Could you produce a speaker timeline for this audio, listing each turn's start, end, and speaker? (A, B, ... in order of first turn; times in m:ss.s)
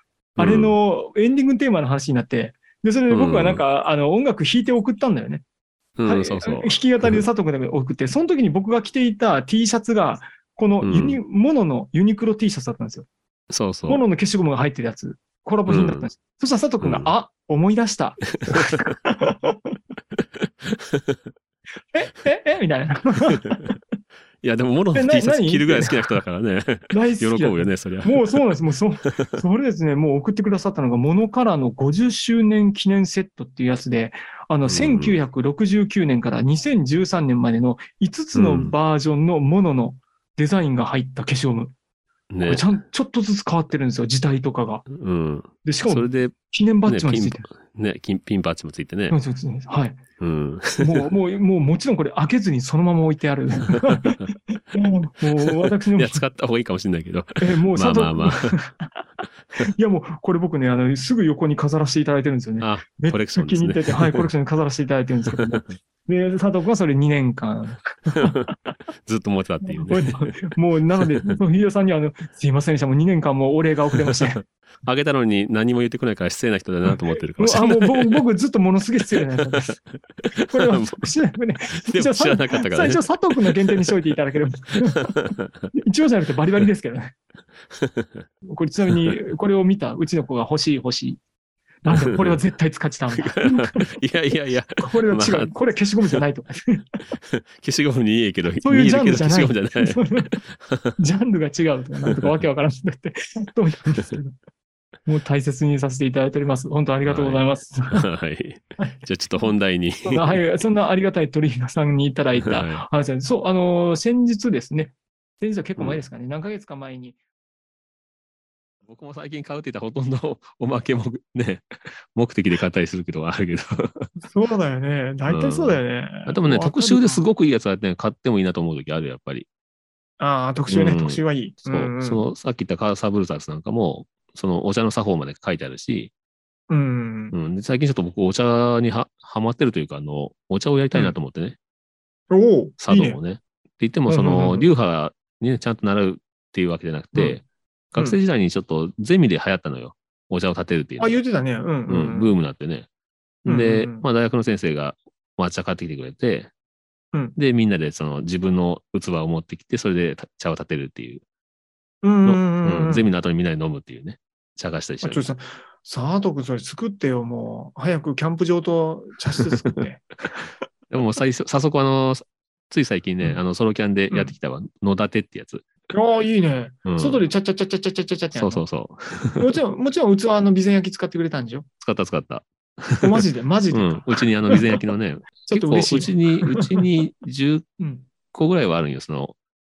0:00.4-0:05.4 A
0:00.4-0:00.8 B
0:03.1-0:03.6 B
0:06.0-0:07.2 B
0:06.0-0:13.1 A
0:10.8-0:11.2 B
0:13.5-0:14.0 B
0:13.9-0:19.7 A
0:15.7-0:16.1 B
0:16.8-0:17.1 B
0:18.4-0:18.9 B
0:20.7-0:21.2 B
0:21.9-0:23.8 A
0:24.4-0:28.4 B
0:24.9-0:26.2 A
0:26.9-0:41.7 A
0:29.0-0:29.4 B
0:34.6-0:35.2 B
0:38.3-0:38.7 B
0:42.3-0:42.7 B
0:42.4-0:44.8 A
0:44.9-0:49.2 B
0:45.6-0:47.4 A
0:49.1-0:50.0 A
0:50.2-0:51.1 B
0:50.8-0:56.2 A
0:53.7-0:54.1 B
0:55.4-0:58.5 B
0:57.4-0:59.0 A
0:59.6-1:08.4 A
1:02.6-1:04.3 B
1:05.3-1:05.7 B
1:09.0-1:10.4 B
1:09.6-1:14.4 A
1:13.9-1:18.2 B
1:16.9-1:19.8 A
1:20.3-1:21.1 B
1:20.5-1:25.1 A
1:21.8-1:23.9 B
1:24.8-1:25.6 B
1:25.7-1:27.1 A
1:27.7-1:28.2 B
1:28.5-1:31.2 A
1:31.8-1:33.9 A
1:31.8-1:32.4 B
1:33.2-1:35.5 B
1:34.8-1:36.9 A
1:37.3-1:40.9 B
1:38.6-1:40.4 A
1:41.0-1:44.3 A
1:45.0-1:48.0 A
1:47.0-1:50.4 B
1:48.8-1:49.5 A
1:50.0-1:57.2 A
1:52.4-1:52.8 B
1:58.8-2:04.1 B
2:04.2-2:07.2 A
2:05.3-2:09.4 B
2:10.2-2:12.2 A
2:10.7-2:16.1 B
2:16.7-2:17.4 A
2:17.3-2:21.6 B
2:22.3-2:23.2 A
2:22.8-2:31.2 B
2:24.1-2:24.7 A
2:27.1-2:27.4 A
2:31.0-2:32.3 A
2:31.9-2:32.9 B
2:33.4-2:36.5 B
2:33.4-2:34.0 A
2:37.4-2:41.2 B
2:42.0-2:43.1 A
2:42.2-2:45.2 B
2:45.0-2:50.5 A
2:50.9-2:55.6 B
2:55.9-2:58.6 A
2:56.8-2:57.2 B
2:58.3-2:59.6 B
2:59.4-3:01.6 A
3:01.8-3:07.6 B
3:03.0-3:04.8 A
3:05.4-3:06.8 A
3:07.8-3:08.1 A
3:08.3-3:09.4 B